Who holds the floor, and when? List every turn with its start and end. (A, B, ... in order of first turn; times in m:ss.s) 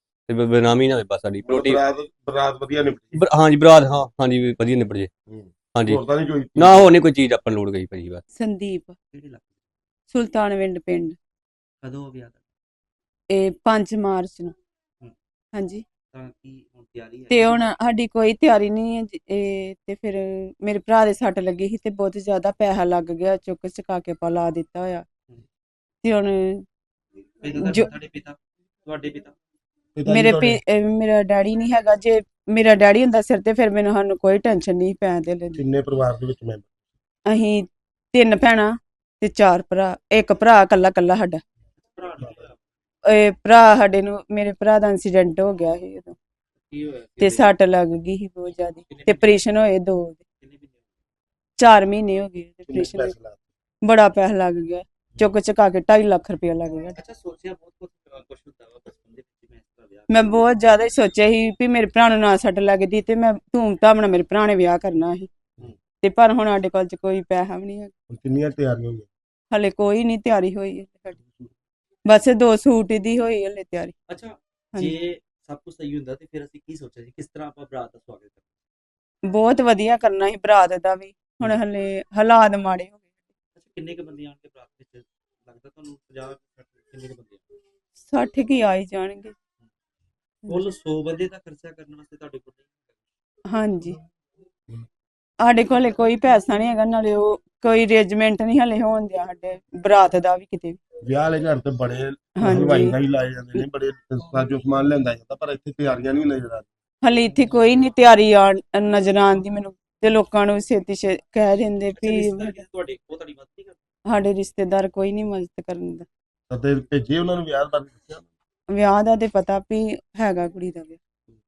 0:00.3-0:01.8 A
0:01.4-0:03.2 B
0:03.2-0:05.1 A
0:05.3-0:06.9 B
0:05.7-0:06.0 A
0:06.6-0:08.2 A
0:08.3-0:09.0 C
0:09.1-0:09.5 D
0:10.1-0:11.2 C
0:11.8-0:12.4 D
0:13.3-0:14.5 C
0:15.5-0:15.8 C
0:16.1-0:17.5 D
0:17.3-0:25.0 C
0:26.0-0:26.6 C
0:27.4-0:29.3 D
0:27.6-0:27.9 C
0:29.9-0:30.6 B
0:30.1-0:35.6 C
0:35.6-0:36.7 B
0:37.3-0:41.4 C
0:41.8-0:42.6 D
0:43.0-0:46.2 C
0:46.6-0:47.5 D
0:47.2-0:50.2 C
0:48.9-0:49.4 D
0:50.4-0:51.0 D
0:51.6-0:53.1 C
0:52.7-0:53.4 B
0:53.8-0:57.0 C
0:56.9-1:00.5 D
1:00.1-1:05.3 C
1:06.0-1:07.9 C
1:08.1-1:09.1 B
1:09.5-1:11.2 C
1:12.0-1:13.9 C
1:14.1-1:18.4 D
1:19.3-1:23.2 C
1:23.6-1:27.4 D
1:28.0-1:29.4 C
1:30.5-1:32.7 D
1:33.5-1:34.0 C
1:35.4-1:40.8 C
1:41.0-1:46.7 B
1:42.4-1:42.9 C
1:47.0-1:52.5 C
1:52.0-1:53.8 D
1:54.1-1:56.0 C
1:56.5-1:58.3 B
1:58.7-2:01.0 C